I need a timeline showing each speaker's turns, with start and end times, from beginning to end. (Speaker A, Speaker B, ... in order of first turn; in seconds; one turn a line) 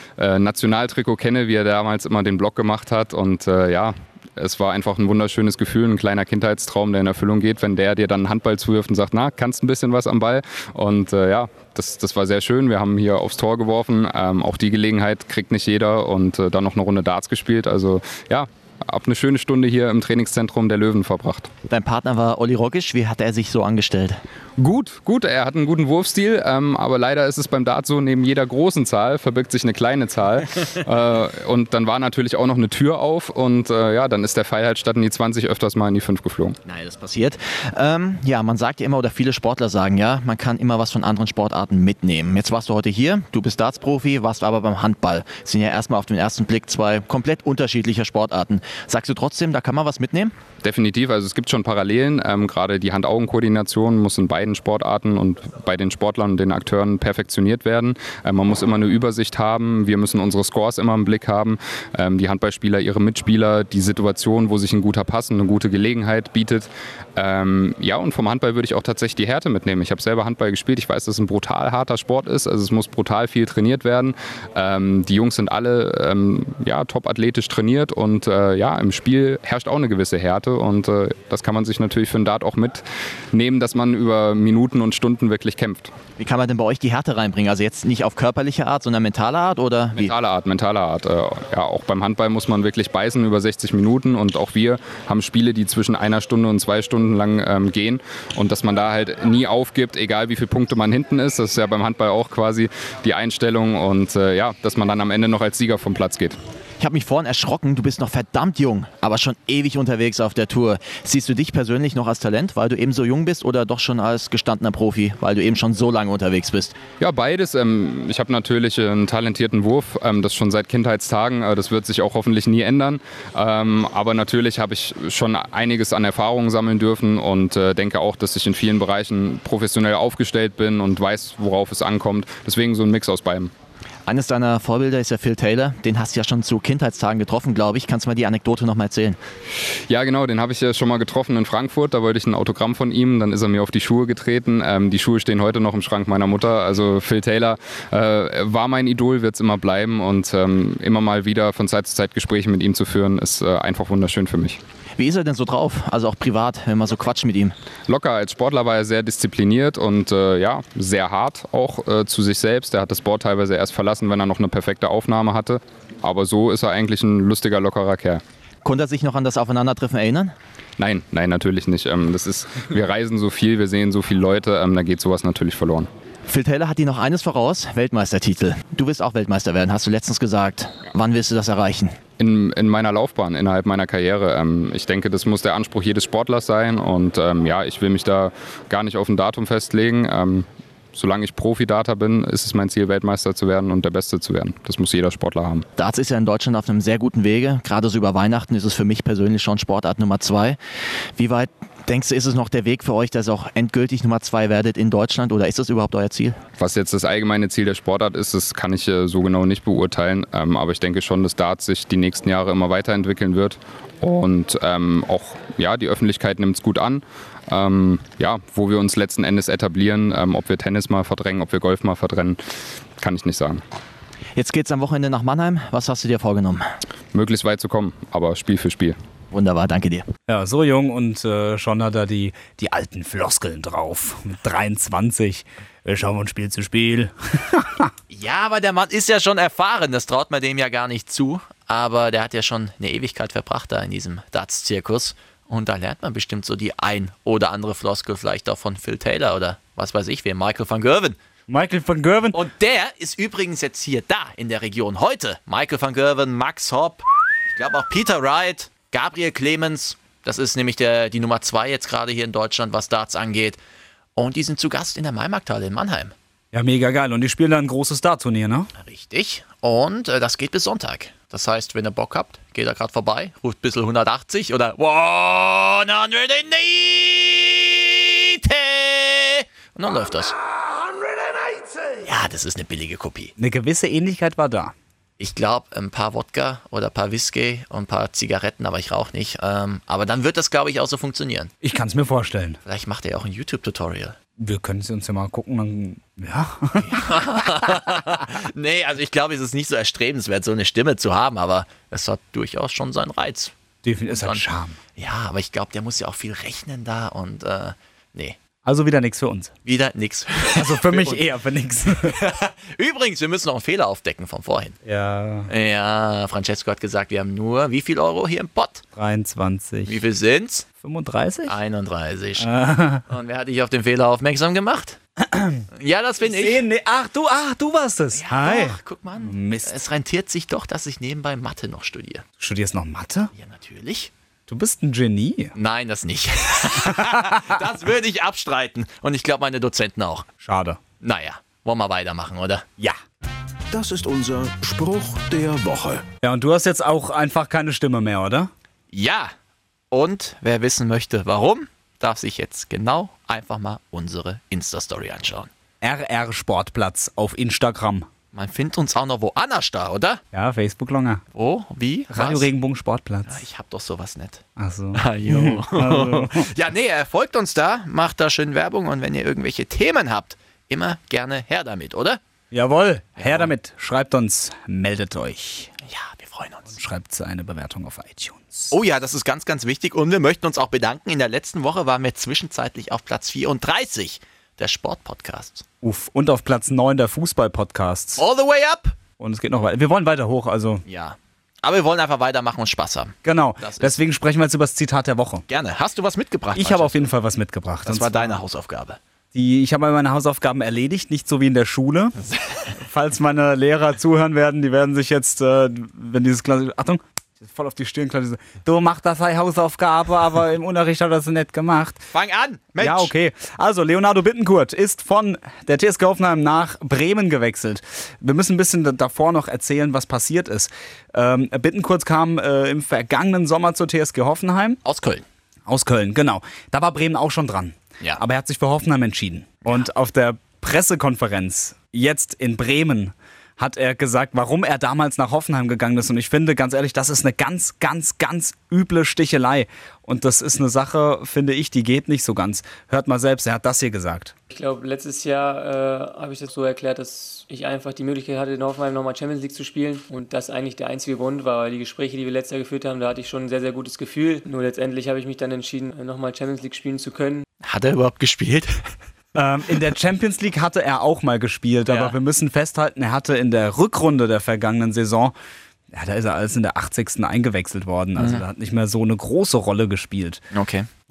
Speaker A: 0.2-21.5
Speaker B: 21.7-24.2
Speaker A: 24.6-36.5
Speaker B: 36.6-50.3
Speaker A: 50.6-85.9
Speaker B: 86.2-90.1
Speaker A: 90.0-106.3
Speaker B: 106.8-116.8
Speaker A: 117.0-133.5
Speaker B: 134.1-139.2
Speaker A: 139.9-154.6
Speaker B: 155.0-157.5
Speaker A: 157.9-168.2
Speaker B: 168.6-170.3
Speaker A: 170.8-175.9
Speaker B: 176.3-182.0
Speaker A: 182.2-195.7
Speaker B: 195.8-200.6
Speaker B: 201.2-206.4
Speaker A: 206.6-222.4
Speaker A: 223.0-223.6
Speaker B: 224.3-226.6
Speaker A: 227.1-228.9
Speaker B: 229.3-230.1
Speaker C: 230.3-237.9
Speaker B: 238.1-251.2
Speaker C: 251.5-252.4
Speaker B: 252.3-263.6
Speaker B: 264.1-266.1
Speaker C: 266.5-268.7
Speaker B: 268.8-280.3
Speaker B: 282.0-283.3
Speaker C: 283.4-284.7
Speaker B: 285.2-291.5
Speaker C: 291.6-292.6
Speaker B: 292.6-294.2
Speaker C: 294.4-297.2
Speaker B: 296.8-303.5
Speaker C: 303.8-304.8
Speaker B: 304.1-304.4
Speaker B: 304.9-308.4
Speaker C: 308.6-309.5
Speaker B: 309.6-311.2
Speaker C: 310.5-312.1
Speaker B: 312.0-314.8
Speaker C: 314.8-315.5
Speaker B: 315.5-318.8
Speaker C: 318.9-320.0
Speaker B: 319.9-320.6
Speaker C: 320.8-321.6
Speaker B: 321.5-322.5
Speaker C: 322.4-323.0
Speaker B: 323.1-325.0
Speaker C: 325.2-325.6
Speaker B: 325.8-326.6
Speaker C: 326.2-329.7
Speaker B: 328.1-332.2
Speaker C: 332.4-333.3
Speaker B: 333.3-334.1
Speaker C: 334.5-335.5
Speaker B: 335.5-340.3
Speaker C: 336.9-337.4
Speaker C: 340.4-340.8
Speaker B: 341.0-342.6
Speaker D: 343.7-346.0
Speaker C: 346.2-348.5
Speaker B: 348.9-349.3
Speaker B: 349.9-355.5
Speaker C: 355.8-358.1
Speaker B: 358.3-360.2
Speaker C: 360.3-361.2
Speaker B: 361.3-362.5
Speaker C: 362.1-363.4
Speaker B: 363.3-364.4
Speaker C: 364.6-366.4
Speaker B: 364.9-372.2
Speaker C: 372.5-375.7
Speaker B: 373.2-373.5
Speaker B: 375.9-376.7
Speaker C: 376.7-378.7
Speaker B: 378.7-385.6
Speaker C: 385.8-388.2
Speaker B: 388.2-389.0
Speaker C: 389.2-390.8
Speaker B: 390.9-393.9
Speaker C: 393.2-395.4
Speaker B: 395.5-397.1
Speaker C: 396.5-398.4
Speaker B: 397.9-399.0
Speaker C: 399.3-402.1
Speaker B: 402.2-402.7
Speaker C: 402.8-412.1
Speaker B: 412.1-413.1
Speaker C: 412.8-424.8
Speaker B: 424.8-425.2
Speaker C: 425.7-444.3
Speaker E: 444.5-457.4
Speaker B: 457.6-458.8
Speaker C: 459.3-465.3
Speaker B: 461.9-462.1
Speaker C: 465.9-470.4
Speaker B: 468.2-468.4
Speaker B: 470.5-470.9